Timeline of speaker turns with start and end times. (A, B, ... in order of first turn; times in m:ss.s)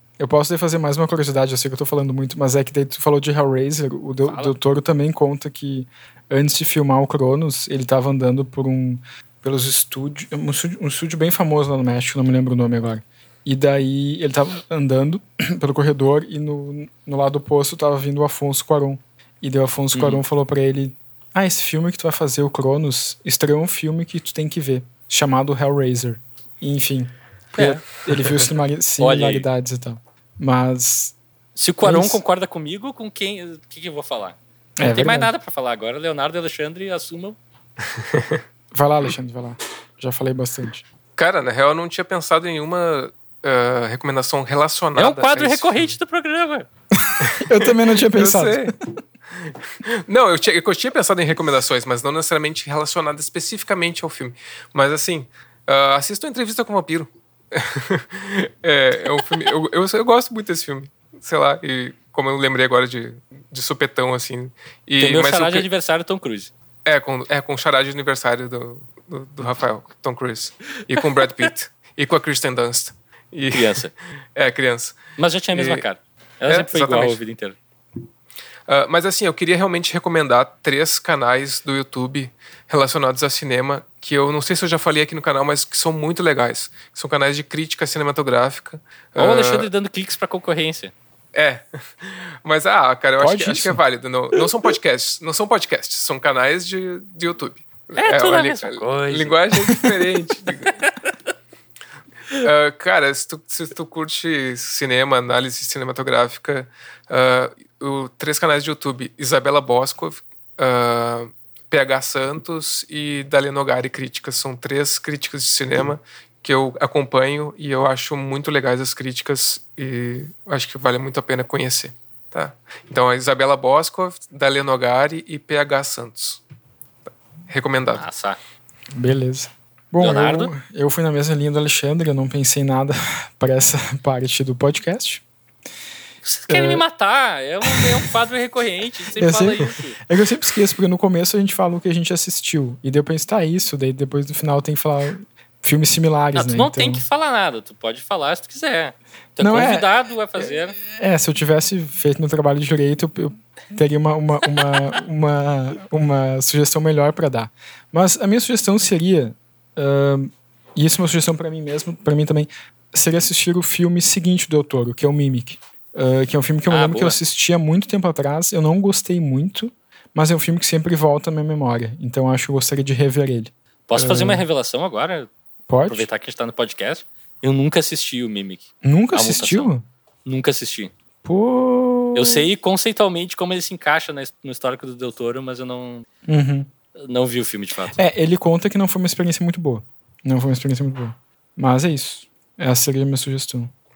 0:00.2-0:31.2 A
0:04.2-0:04.5 B
0:19.9-0:20.2 B
0:27.6-0:27.8 B
0:29.0-0:29.4 B
0:31.6-0:37.4 B
0:31.8-0:32.2 A
0:34.8-0:35.3 A
0:38.0-0:38.4 C
0:38.7-0:40.8 A
0:41.2-0:46.0 C
0:44.9-0:46.7 B
0:46.9-0:48.7 A
0:47.2-0:48.7 C
0:49.4-1:05.6 C
1:05.0-1:06.5 B
1:06.8-1:15.0 C
1:13.5-1:13.9 B
1:15.2-1:17.6 B
1:15.5-1:15.8 C
1:16.5-1:17.2 C
1:18.7-1:29.7 C
1:29.2-1:30.9 B
1:31.3-1:40.8 C
1:33.2-1:33.8 A
1:38.0-1:39.4 B
1:40.8-1:41.1 B
1:42.4-2:06.4 C
2:07.5-2:08.1 C
2:07.9-2:08.4 B
2:08.9-2:15.2 A
2:10.0-2:10.5 B
2:16.2-2:20.0 B
2:16.5-2:16.8 A
2:17.6-2:18.0 A
2:19.2-2:27.0 A
2:26.3-2:30.8 B
2:29.4-2:29.9 A
2:30.4-2:54.4 A
2:46.7-2:47.2 B
2:53.9-2:55.3 B
2:55.7-2:56.1 A
2:55.9-2:59.7 B
2:58.8-2:59.8 A
3:00.2-3:00.9 B
3:01.2-3:02.4 A
3:02.1-3:06.0 B
3:06.2-3:06.7 A
3:07.0-3:08.0 B
3:07.9-3:13.7 A